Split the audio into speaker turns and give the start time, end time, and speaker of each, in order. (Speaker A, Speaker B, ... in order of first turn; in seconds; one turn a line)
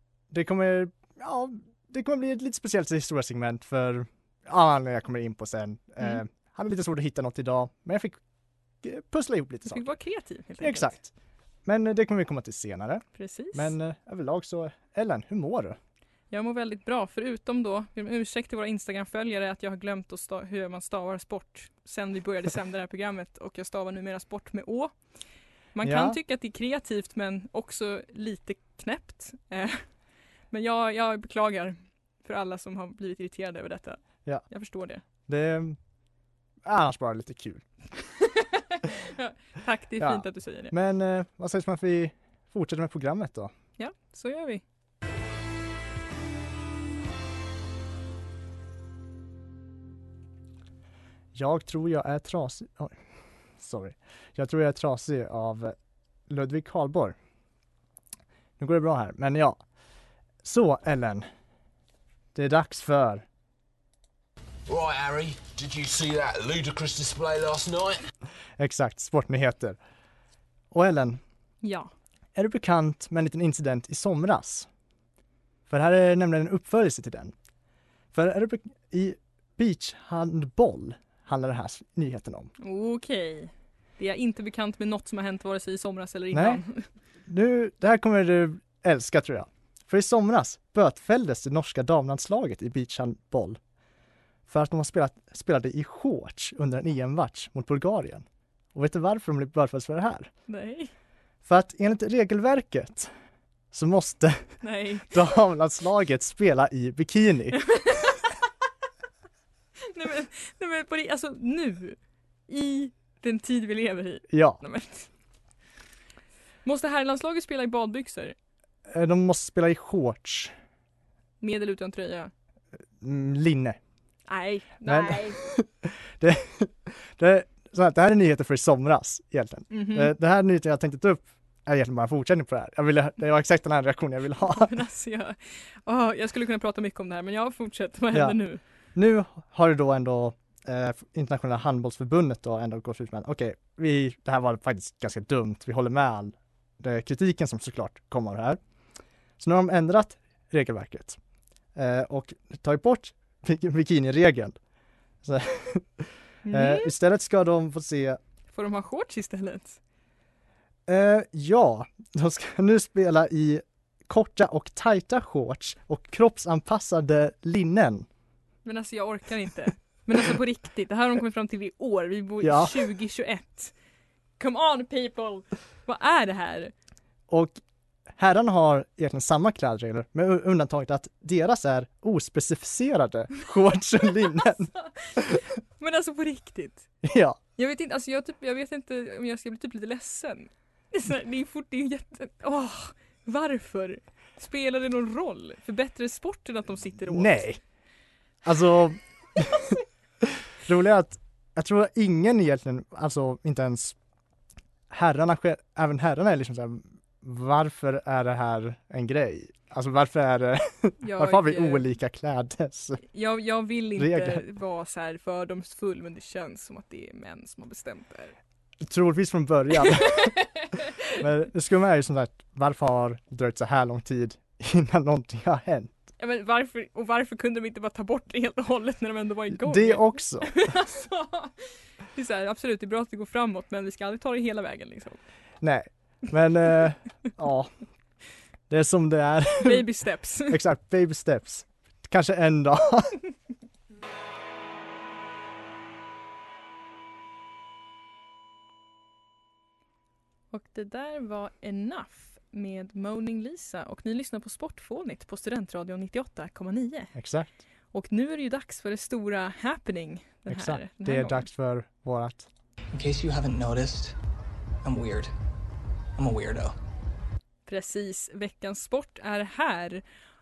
Speaker A: 0.3-8.2
Speaker A: 8.8-9.9
Speaker B: 9.7-10.9
Speaker A: 10.6-11.1
Speaker A: 11.6-15.8
Speaker B: 13.2-13.7
Speaker B: 16.3-24.9
Speaker B: 25.7-29.9
Speaker A: 25.8-26.2
Speaker B: 30.5-35.0
Speaker A: 35.3-35.8
Speaker A: 36.6-37.6
Speaker B: 38.2-40.7
Speaker A: 40.0-43.5
Speaker B: 43.8-44.6
Speaker A: 51.3-53.0
Speaker A: 53.6-55.8
Speaker A: 56.3-57.1
Speaker A: 58.6-59.6
Speaker A: 60.4-61.3
Speaker A: 62.3-63.2
Speaker C: 64.7-68.0
Speaker A: 68.6-69.8
Speaker A: 70.7-71.2
Speaker B: 71.6-71.9
Speaker A: 72.3-74.7
Speaker A: 75.7-77.3
Speaker A: 78.1-82.5
Speaker B: 82.6-86.9
Speaker A: 86.3-86.6
Speaker A: 87.3-93.6
Speaker A: 94.5-100.3
Speaker B: 100.5-100.9
Speaker A: 101.4-103.1
Speaker A: 103.7-104.5
Speaker B: 104.6-105.1
Speaker A: 105.1-108.0
Speaker B: 107.7-108.3
Speaker B: 109.8-115.1
Speaker A: 114.3-114.6
Speaker B: 116.6-118.3
Speaker A: 118.9-120.5
Speaker B: 121.4-122.3
Speaker A: 123.0-123.8
Speaker B: 124.3-125.4
Speaker A: 124.8-134.7
Speaker B: 129.7-130.1
Speaker B: 134.4-138.6
Speaker A: 138.9-148.6
Speaker A: 149.4-151.2
Speaker A: 151.7-154.6
Speaker A: 155.2-158.2
Speaker B: 156.4-156.9
Speaker B: 158.5-159.8
Speaker A: 160.9-168.1
Speaker B: 168.6-173.7
Speaker A: 172.4-172.8
Speaker B: 174.4-176.7
Speaker A: 177.3-177.6
Speaker A: 178.1-185.3
Speaker B: 184.8-186.9
Speaker A: 187.0-187.4
Speaker B: 187.6-197.5
Speaker A: 197.1-197.6
Speaker A: 198.4-203.9
Speaker A: 204.9-213.0
Speaker B: 211.0-211.9
Speaker B: 213.1-218.3
Speaker A: 214.0-214.4
Speaker A: 218.8-220.3
Speaker B: 220.2-220.6
Speaker A: 221.2-225.9
Speaker B: 226.2-235.2
Speaker A: 229.5-230.5
Speaker A: 235.6-237.7
Speaker A: 238.7-239.8
Speaker B: 239.6-240.6
Speaker A: 240.5-243.2
Speaker B: 250.5-257.1
Speaker A: 257.1-257.6
Speaker B: 257.9-261.4
Speaker A: 260.5-262.5
Speaker D: 262.9-264.2
Speaker D: 264.8-265.3
Speaker D: 266.2-266.7
Speaker B: 267.6-270.0